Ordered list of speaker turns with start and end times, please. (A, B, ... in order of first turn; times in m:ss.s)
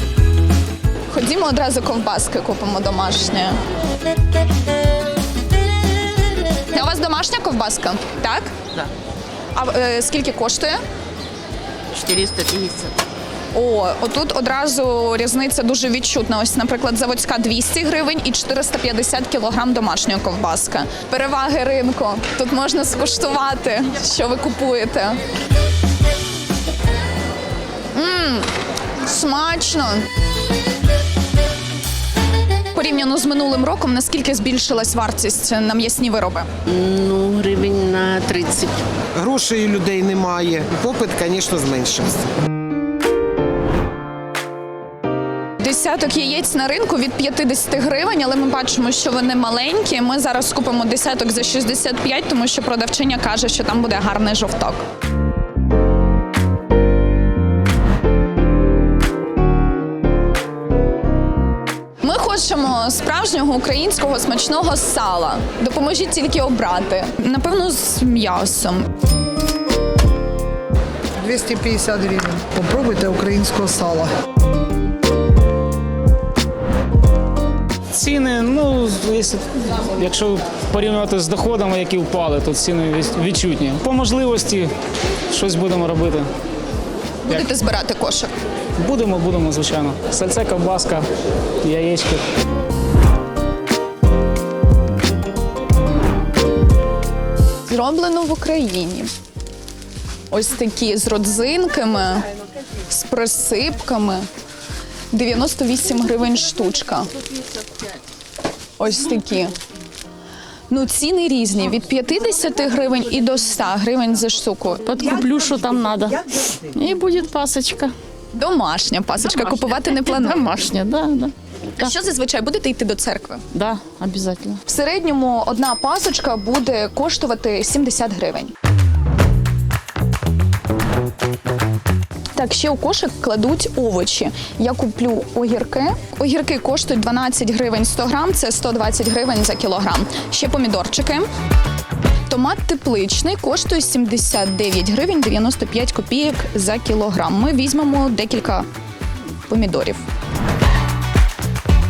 0:01.1-0:03.6 A
0:06.7-0:08.5 A
0:09.5-0:10.8 A
0:11.9-0:13.0 B
0:13.5-0:25.2 A
0:27.9-0:30.1 A
0:32.7-0:36.5 A
0:36.7-0:38.7 B
0:39.2-0:42.3 C
0:45.6-0:54.8 A
1:02.0-1:08.9 A
1:11.2-1:14.1 D
1:17.9-1:24.7 E
1:25.3-1:26.3 E
1:27.3-1:28.3 A
1:28.8-1:31.0 E
1:31.6-1:32.2 E
1:37.7-1:39.1 A
1:40.3-1:42.3 A
1:42.9-1:44.3 A
1:45.1-1:47.2 A
1:48.8-1:49.6 A
1:50.7-1:55.0 A
1:54.9-1:57.9 F
1:58.3-2:00.5 A
1:59.9-2:01.9 F
2:01.8-2:03.4 A
2:03.5-2:04.6 F
2:04.7-2:08.5 A
2:12.4-2:21.3 A
2:22.3-2:28.7 A
2:29.5-2:30.0 A